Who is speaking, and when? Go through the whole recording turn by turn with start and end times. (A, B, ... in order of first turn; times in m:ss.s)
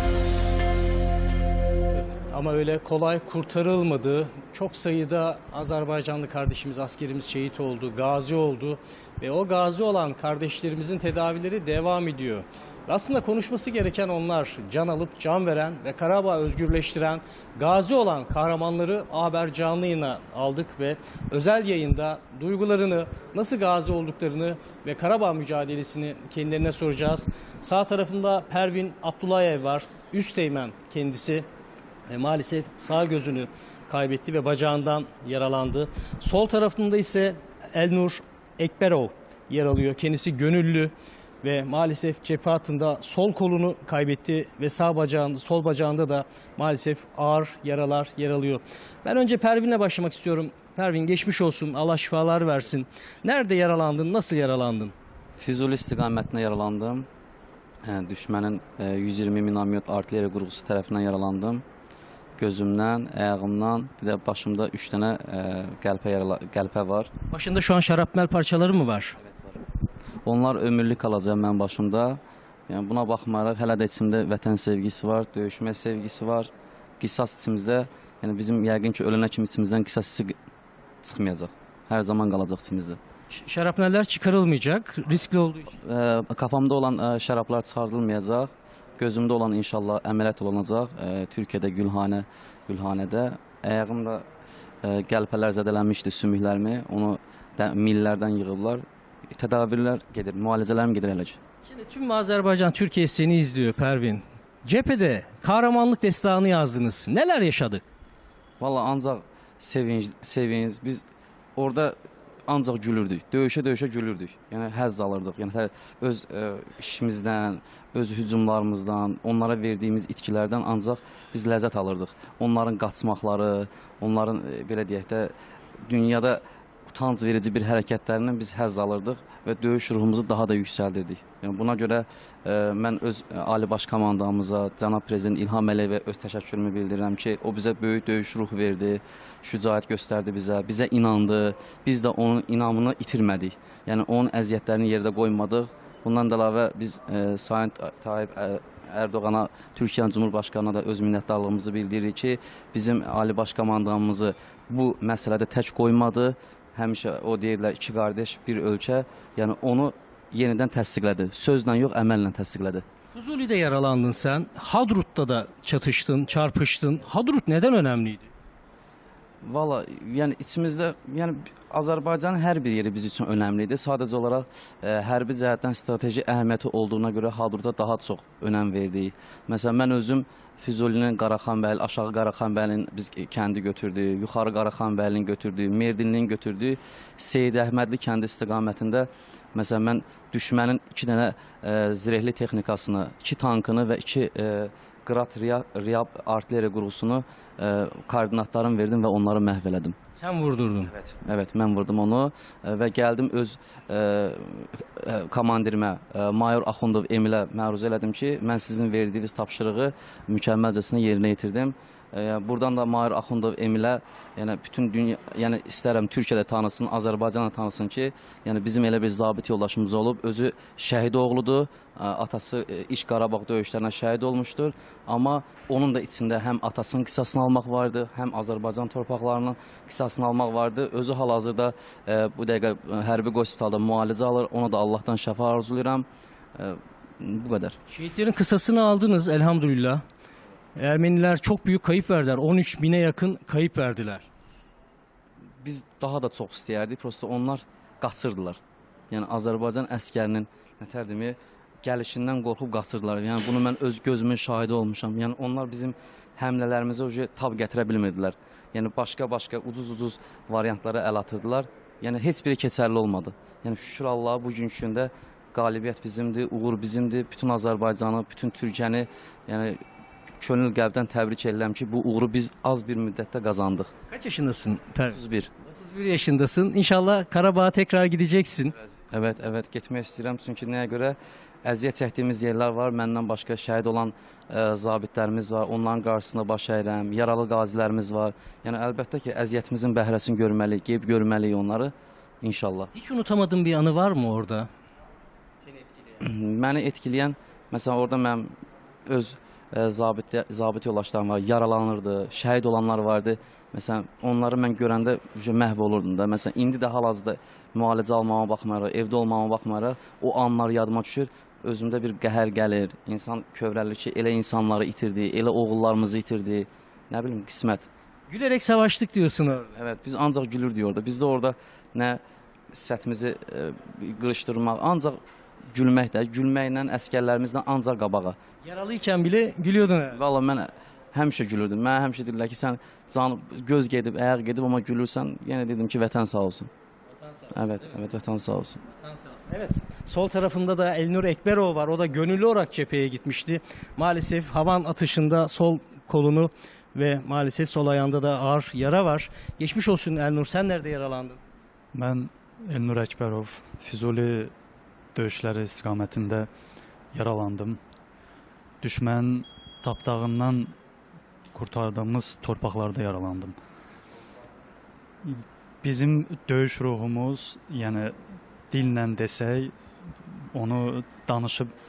0:02.3-0:31.4 A
0:32.1-0:54.9 A
0:55.4-0:57.1 B
0:57.8-1:01.6 B
1:02.4-1:07.1 B
1:07.3-1:09.2 A
1:10.2-1:20.3 B
1:21.0-1:23.0 B
1:23.3-1:25.7 A
1:25.8-1:34.2 B
1:34.8-1:41.4 B
1:41.6-1:47.8 A
1:48.6-1:51.0 B
1:51.6-1:52.0 B
1:52.5-2:05.3 B
2:05.8-2:42.8 B
2:43.1-2:48.3 A
2:49.4-3:20.0 B
3:20.2-3:20.9 A
3:20.9-3:56.0 B
3:56.6-3:57.8 B
3:57.9-4:00.0 A
4:00.8-4:04.2 A
4:05.6-4:08.6 B
4:09.1-4:29.8 B
4:30.4-4:33.9 B
4:34.1-4:38.7 A
4:35.1-4:35.5 B
4:39.1-4:52.9 B
4:52.9-4:54.7 A
4:56.2-4:58.5 B
4:59.1-5:17.9 B
5:18.3-5:19.7 A
5:19.7-5:22.2 B
5:22.7-5:25.2 B
5:25.7-5:28.4 B
5:28.6-5:30.2 A
5:30.1-5:36.7 B
5:37.5-5:38.8 B
5:39.2-5:51.4 A
5:51.9-5:54.5 C
5:55.1-5:56.5 C
5:57.1-5:57.8 C
5:58.8-6:00.7 C
6:01.5-6:03.6 C
6:05.2-6:08.1 C
6:08.7-6:09.7 C
6:10.5-6:11.7 C